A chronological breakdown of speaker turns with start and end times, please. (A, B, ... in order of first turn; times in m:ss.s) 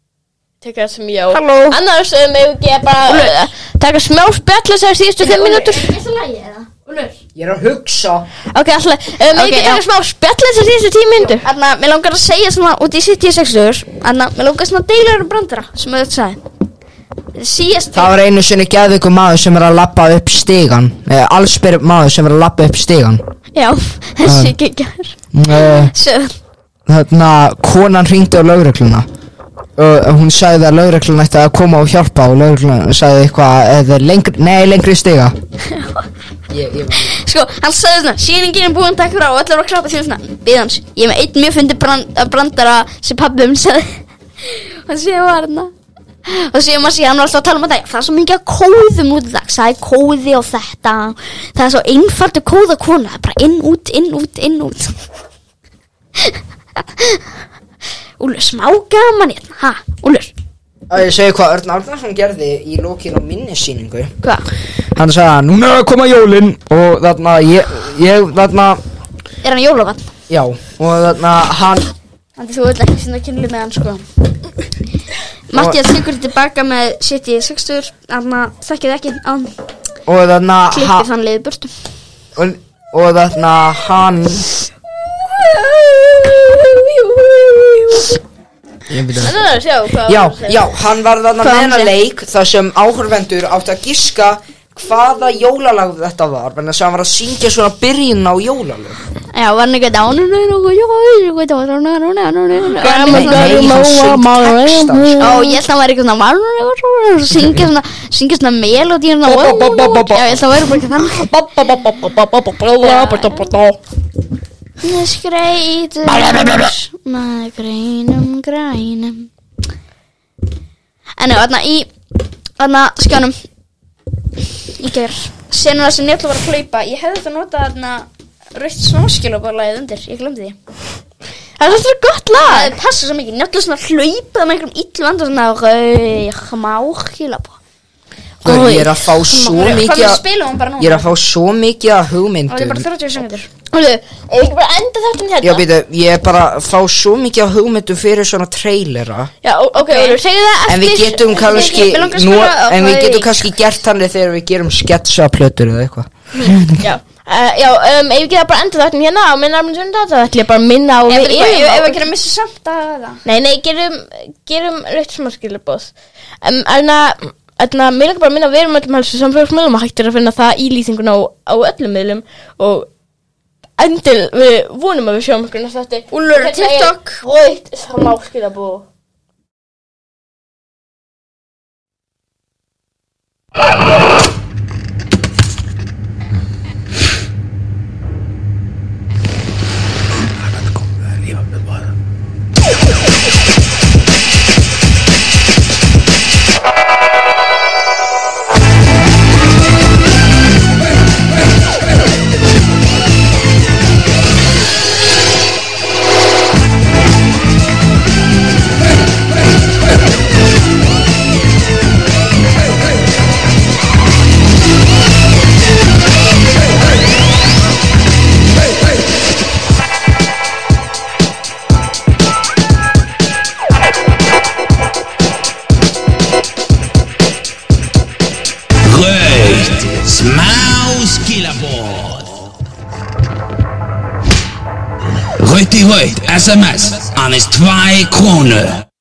0:00.6-0:05.9 A
0:01.3-0:01.8 B
0:03.1-0:03.3 B
0:05.2-0:07.2 B
0:07.3-0:08.3 C
0:08.5-0:11.4 A
0:09.3-0:09.8 B
0:11.2-0:16.4 B
0:17.3-0:18.1 B
0:17.9-0:23.2 C
0:23.5-0:26.3 B
0:24.2-0:24.5 C
0:25.3-0:25.9 C
0:26.9-0:29.0 C
0:29.8-0:35.3 C
0:35.7-0:36.0 B
0:36.5-0:37.2 C
0:37.0-0:45.7 B
0:46.2-0:54.9 B
0:56.2-0:57.2 B
0:58.2-1:00.3 B
1:00.9-1:04.1 C
1:04.2-1:04.5 B
1:04.9-1:08.8 C
1:09.4-1:10.1 B
1:10.3-1:11.9 C
1:12.4-1:14.0 B
1:15.5-1:19.5 B
1:15.5-1:15.8 C
1:20.1-1:21.1 C
1:20.7-1:21.7 B
1:22.4-1:24.5 C
1:25.2-1:28.1 B
1:28.9-1:29.4 C
1:29.2-1:30.7 A
1:30.0-1:39.0 C
1:31.4-1:31.9 B
1:39.3-1:43.7 B
1:42.7-1:45.6 A
1:42.8-1:45.4 C
1:45.2-1:51.3 B
1:49.3-1:50.4 C
1:49.5-1:49.9 A
1:51.3-1:53.7 A
1:51.4-1:52.0 C
1:52.8-1:53.4 B
1:53.0-1:53.5 C
1:54.8-1:59.3 B
2:01.2-2:01.9 B
2:02.6-2:03.3 B
2:04.8-2:10.6 B
2:11.6-2:12.7 A
2:12.4-2:17.6 B
2:18.4-2:19.8 A
2:18.4-2:20.2 C
2:19.5-2:21.1 B
2:20.8-2:22.9 C
2:22.5-2:23.5 B
2:23.7-2:25.6 A
2:25.4-2:29.3 C
2:29.4-2:31.9 A
2:29.8-2:30.2 B
2:30.7-2:36.9 C
2:31.3-2:33.5 B
2:36.4-2:42.0 A
2:41.1-2:43.2 B
2:43.2-2:52.9 A
2:53.8-2:58.8 A
2:56.1-2:57.2 B
3:48.8-3:52.4 D
3:55.4-3:58.8 D